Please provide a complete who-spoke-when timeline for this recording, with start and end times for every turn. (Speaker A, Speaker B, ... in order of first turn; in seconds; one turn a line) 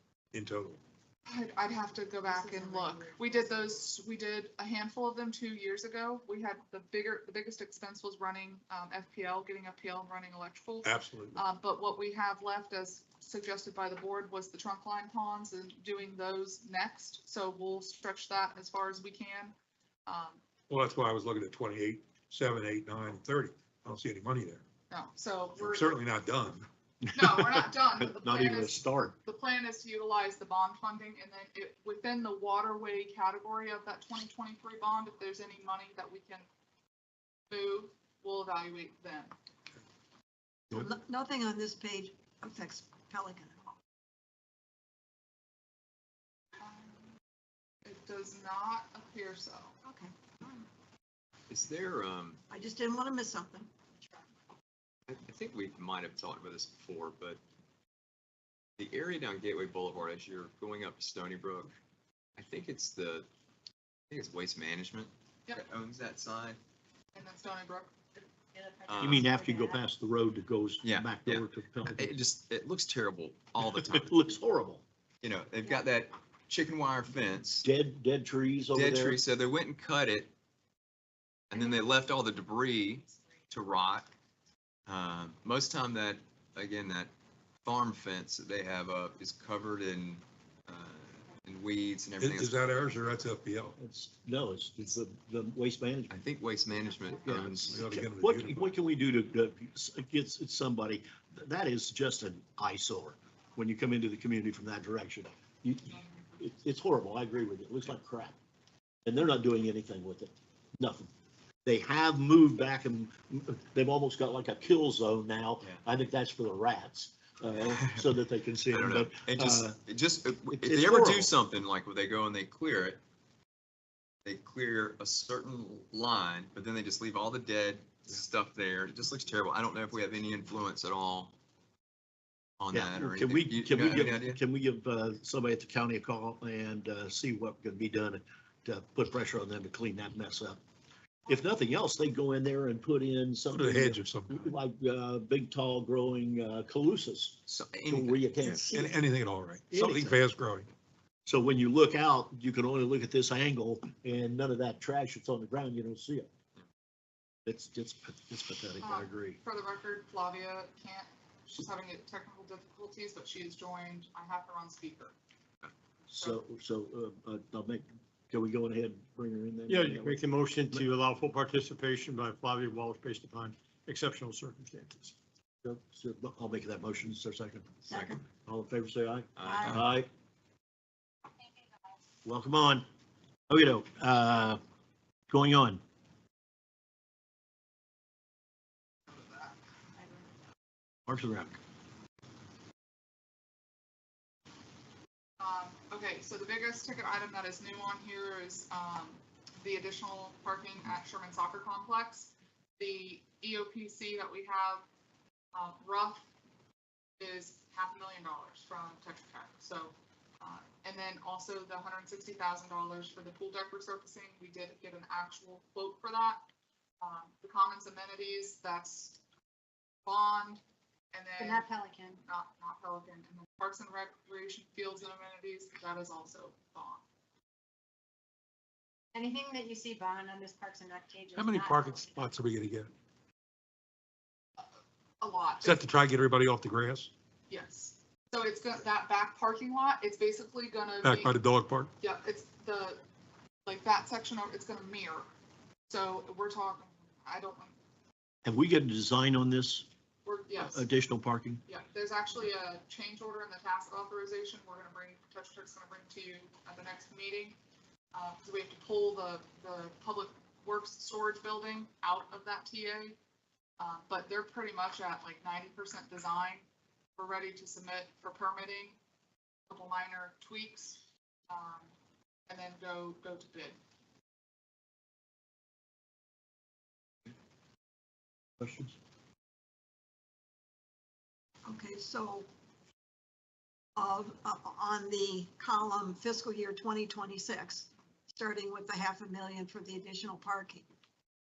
Speaker A: 0.3-0.8
Speaker B: 1.2-19.5
Speaker C: 2.2-3.8
Speaker A: 10.8-11.4
Speaker B: 20.1-20.4
Speaker A: 20.7-24.6
Speaker B: 24.9-26.0
Speaker A: 25.6-26.7
Speaker D: 27.0-29.1
Speaker B: 27.1-36.5
Speaker B: 37.5-39.3
Speaker E: 40.7-43.7
Speaker B: 46.6-47.0
Speaker B: 47.8-49.8
Speaker E: 49.8-50.6
Speaker F: 51.5-52.4
Speaker E: 52.5-53.7
Speaker F: 55.1-57.4
Speaker F: 58.8-61.7
Speaker F: 62.4-63.3
Speaker F: 64.1-66.6
Speaker B: 67.1-67.9
Speaker C: 68.2-69.8
Speaker F: 68.8-69.2
Speaker D: 69.0-72.1
Speaker F: 70.8-74.2
Speaker D: 73.8-74.8
Speaker F: 75.2-77.7
Speaker D: 77.6-79.2
Speaker F: 78.7-80.3
Speaker F: 81.5-84.1
Speaker F: 84.9-87.1
Speaker F: 87.6-92.6
Speaker A: 92.2-93.8
Speaker D: 93.8-96.2
Speaker F: 96.1-97.8
Speaker D: 97.2-108.4
Speaker A: 97.7-98.8
Speaker D: 109.0-111.1
Speaker D: 111.6-119.8
Speaker F: 117.6-118.1
Speaker F: 118.7-123.0
Speaker D: 120.5-121.3
Speaker F: 124.2-131.3
Speaker F: 132.6-134.4
Speaker D: 132.7-140.6
Speaker D: 141.3-149.0
Speaker A: 143.5-144.5
Speaker F: 147.5-148.4
Speaker A: 148.4-150.7
Speaker D: 149.7-150.2
Speaker D: 151.2-156.3
Speaker D: 157.4-159.4
Speaker B: 158.8-165.1
Speaker D: 166.1-170.9
Speaker B: 166.1-166.4
Speaker G: 169.7-175.1
Speaker D: 175.6-177.8
Speaker E: 177.9-178.2
Speaker F: 177.9-178.2
Speaker D: 178.4-180.1
Speaker F: 179.3-179.9
Speaker E: 179.4-179.8
Speaker D: 182.2-182.8
Speaker D: 183.5-184.6
Speaker D: 185.3-185.8
Speaker C: 190.0-190.3
Speaker D: 191.1-191.6
Speaker B: 195.4-204.8
Speaker B: 205.5-206.3
Speaker B: 207.2-216.4
Speaker B: 217.0-219.2
Speaker B: 220.1-220.6
Speaker B: 221.1-221.7
Speaker C: 221.4-222.2
Speaker B: 222.2-227.0
Speaker C: 229.1-232.3
Speaker A: 231.3-232.9
Speaker B: 235.2-235.8
Speaker A: 235.6-237.1
Speaker B: 237.5-241.3
Speaker A: 241.0-241.9
Speaker B: 242.0-243.0
Speaker B: 243.7-245.3
Speaker B: 245.9-247.7
Speaker D: 248.4-249.8
Speaker B: 250.2-250.9
Speaker D: 250.6-251.6
Speaker B: 251.7-257.6
Speaker B: 258.1-263.2
Speaker B: 263.8-266.6
Speaker B: 267.2-269.0
Speaker B: 269.7-271.9
Speaker B: 272.5-273.8
Speaker D: 278.6-278.9
Speaker E: 281.6-282.5
Speaker E: 283.9-290.9